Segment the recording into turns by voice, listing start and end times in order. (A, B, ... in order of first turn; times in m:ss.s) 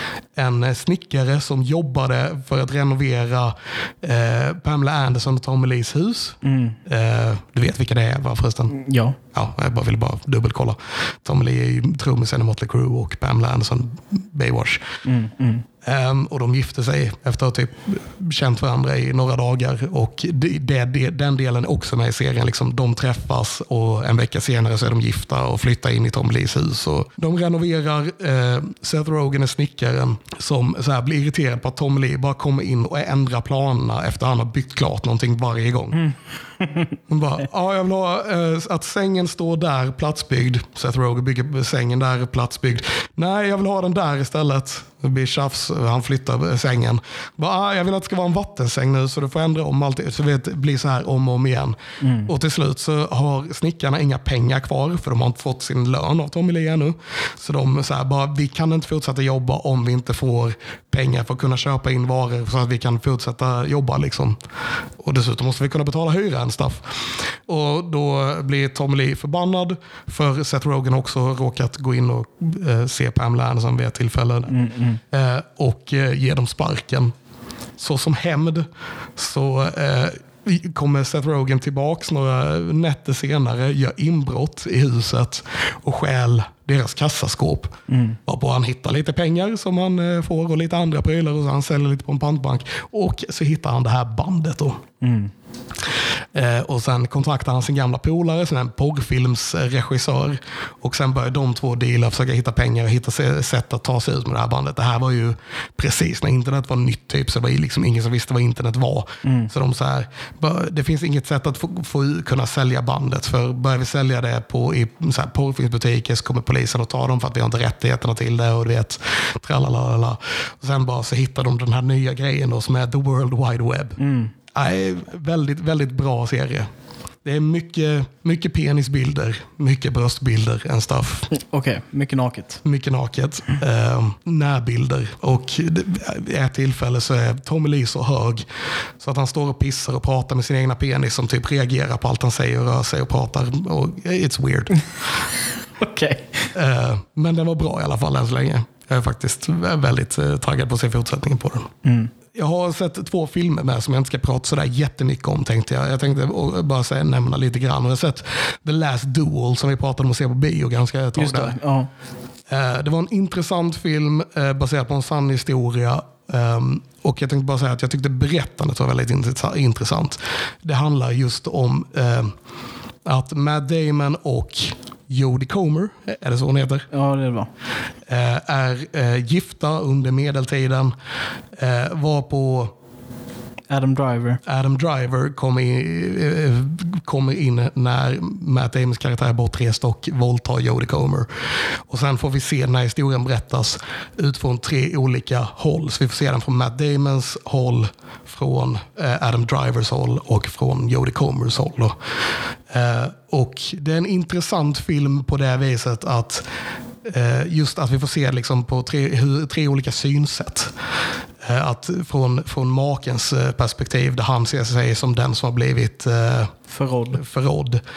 0:00.4-0:08.7 A
0:06.4-0:06.8 B
0:08.7-0:09.2 B
0:09.3-0:14.8 A
0:15.0-0:15.6 B
0:15.8-0:36.0 A
0:36.0-0:36.9 B
0:37.1-1:04.4 A
0:52.0-0:52.3 B
1:05.0-1:14.5 A
1:14.5-1:15.0 B
1:15.1-1:17.1 A
1:17.8-1:34.8 A
1:27.9-1:28.2 B
1:35.0-1:35.3 B
1:36.3-2:04.0 A
1:49.2-1:49.5 B
2:04.0-2:04.3 B
2:04.5-2:06.7 A
2:07.2-2:11.3 A
2:11.3-2:12.6 B
2:12.6-2:18.4 A
2:19.0-2:25.2 A
2:25.8-2:26.5 B
2:26.5-2:31.7 A
2:31.8-2:32.1 B
2:32.3-2:41.6 A
2:41.2-2:41.9 B
2:42.5-2:52.3 A
2:53.0-2:56.8 A
2:56.9-2:57.5 B
2:58.1-3:00.9 A
3:01.5-3:02.7 A
3:03.7-3:04.4 B
3:04.4-3:22.0 A
3:22.7-3:26.4 A
3:27.0-3:30.7 A
3:31.4-3:36.5 A
3:36.7-3:37.2 B
3:37.1-3:37.8 A